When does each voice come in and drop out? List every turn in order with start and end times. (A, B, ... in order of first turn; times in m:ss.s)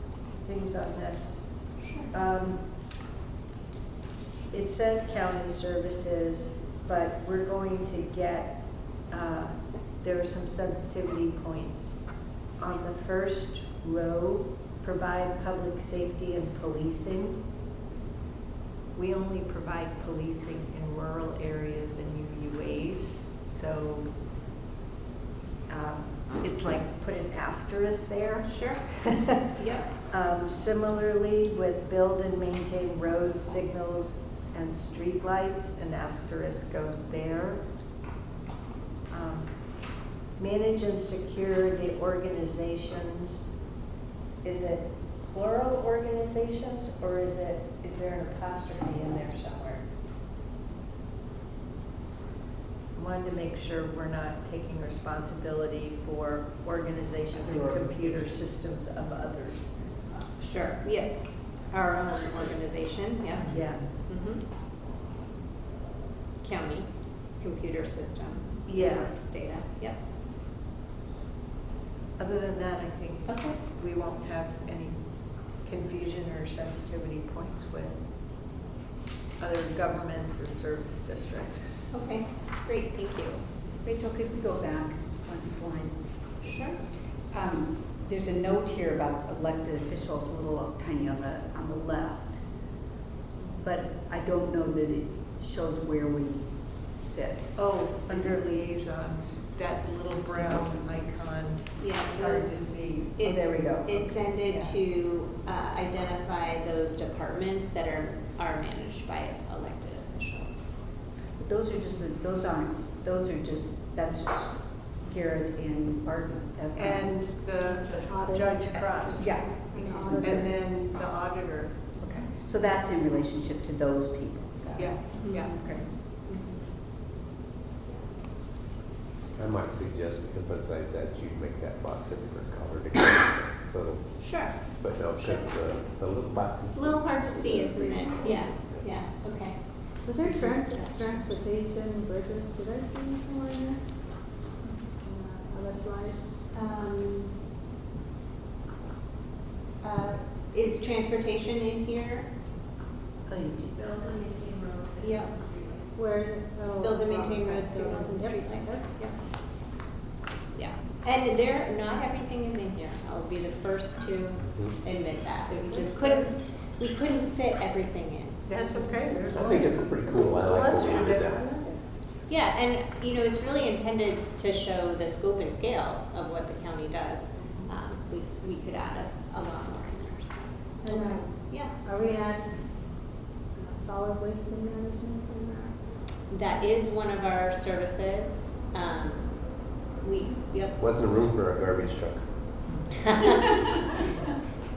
0:00.4-0:01.4 A
0:01.8-0:02.1 B
0:02.1-0:02.6 A
0:04.5-0:12.0 A
0:12.6-0:17.4 A
0:19.0-0:24.1 A
0:25.7-0:29.3 A
0:28.5-0:28.9 B
0:29.4-0:29.9 B
0:30.1-0:37.6 A
0:39.1-0:39.5 A
0:40.4-0:43.5 A
0:44.4-0:49.8 A
0:53.0-0:59.8 A
0:57.4-0:58.1 C
1:00.4-1:04.4 B
1:03.4-1:03.8 A
1:06.4-1:10.0 B
1:08.7-1:09.1 A
1:12.2-1:15.0 A
1:13.3-1:13.6 B
1:15.6-1:17.9 A
1:19.4-1:21.8 A
1:21.9-1:23.4 B
1:23.8-1:26.0 C
1:26.4-1:26.8 B
1:27.3-1:32.4 C
1:33.6-1:38.4 C
1:37.6-1:43.4 A
1:41.8-1:42.6 B
1:43.2-1:44.0 C
1:43.2-1:50.8 B
1:44.5-1:44.7 A
1:51.4-1:57.2 C
1:56.8-1:59.6 A
1:58.1-2:00.6 D
1:59.1-2:00.4 C
2:00.1-2:01.8 A
2:02.0-2:05.8 C
2:04.8-2:05.6 A
2:05.2-2:05.5 B
2:06.3-2:06.6 B
2:09.3-2:14.1 E
2:14.2-2:14.6 B
2:14.7-2:18.9 E
2:15.2-2:15.6 B
2:16.7-2:19.6 B
2:20.0-2:23.8 D
2:20.2-2:21.2 B
2:25.0-2:26.2 D
2:26.5-2:27.4 B
2:29.8-2:32.3 B
2:33.3-2:34.8 C
2:35.0-2:35.4 B
2:36.0-2:39.0 D
2:36.8-2:39.2 B
2:40.5-2:48.5 B
2:45.7-2:46.2 D
2:48.5-2:49.6 A
2:48.8-2:51.8 D
2:49.3-2:51.4 E
2:50.4-2:51.5 A
2:52.3-3:01.8 B
3:00.8-3:02.6 D
3:03.6-3:05.8 D
3:06.3-3:09.4 B
3:10.0-3:10.8 B
3:10.8-3:12.3 E
3:13.2-3:13.6 B